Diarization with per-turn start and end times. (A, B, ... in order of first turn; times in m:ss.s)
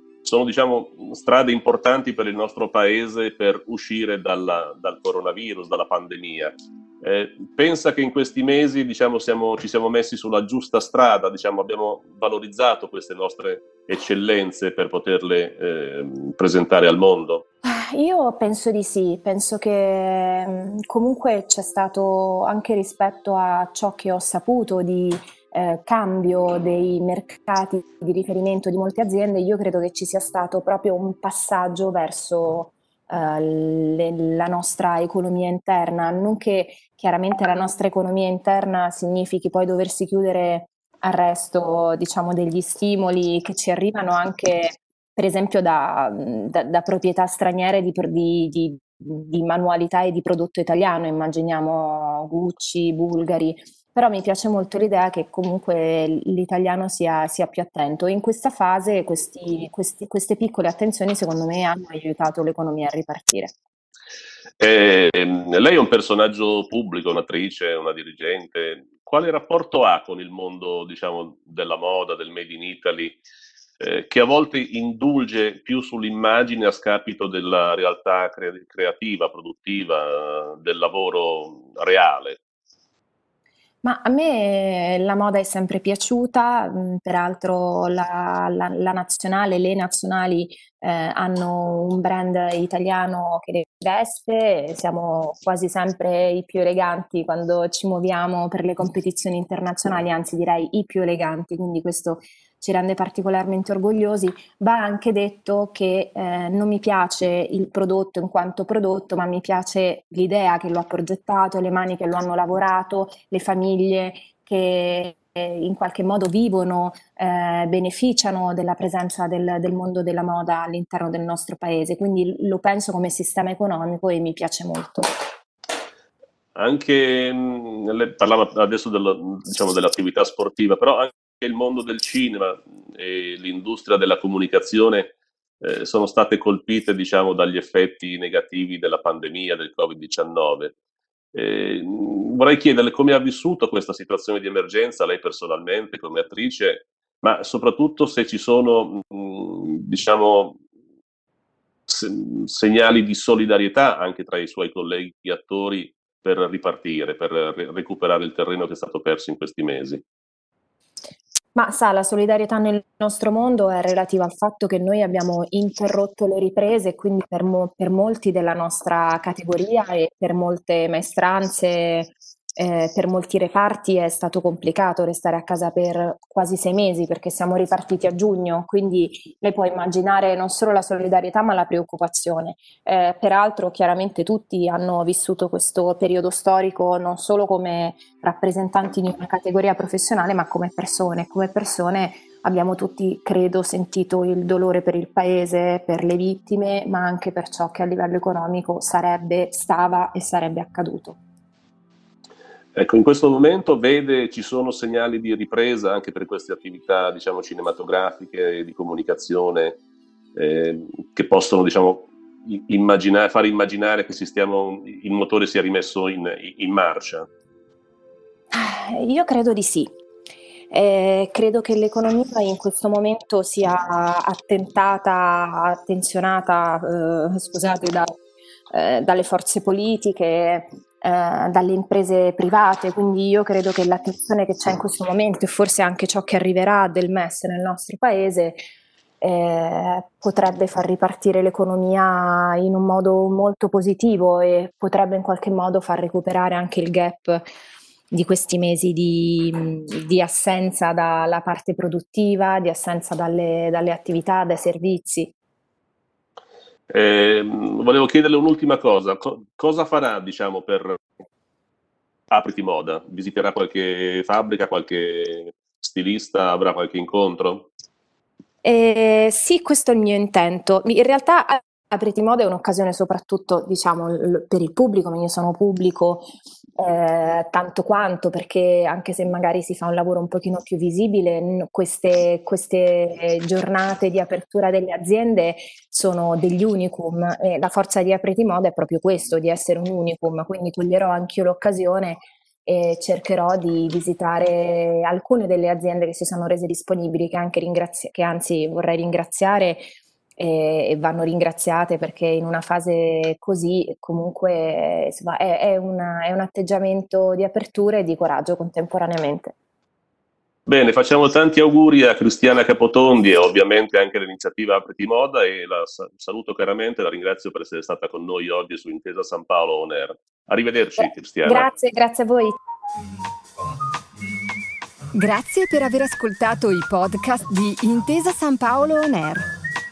0:00.2-0:17.4 A
0:17.6-1:03.6 B
1:04.6-1:13.2 A
1:13.8-1:22.4 A
1:23.8-2:05.1 B
2:06.6-2:20.7 A
2:21.3-2:30.6 A
2:31.9-2:40.0 A
2:41.5-3:21.2 B
3:22.7-3:29.8 A
3:30.3-3:37.3 A
3:38.5-3:39.9 B
3:40.7-3:48.2 B
3:48.7-3:58.6 B
3:59.2-4:07.4 B
4:08.1-4:15.3 B
4:16.9-4:21.0 A
4:22.3-4:27.7 A
4:28.6-4:36.3 B
4:36.8-5:09.5 B
5:10.7-5:21.7 A
5:21.0-5:22.6 B
5:25.1-5:29.5 C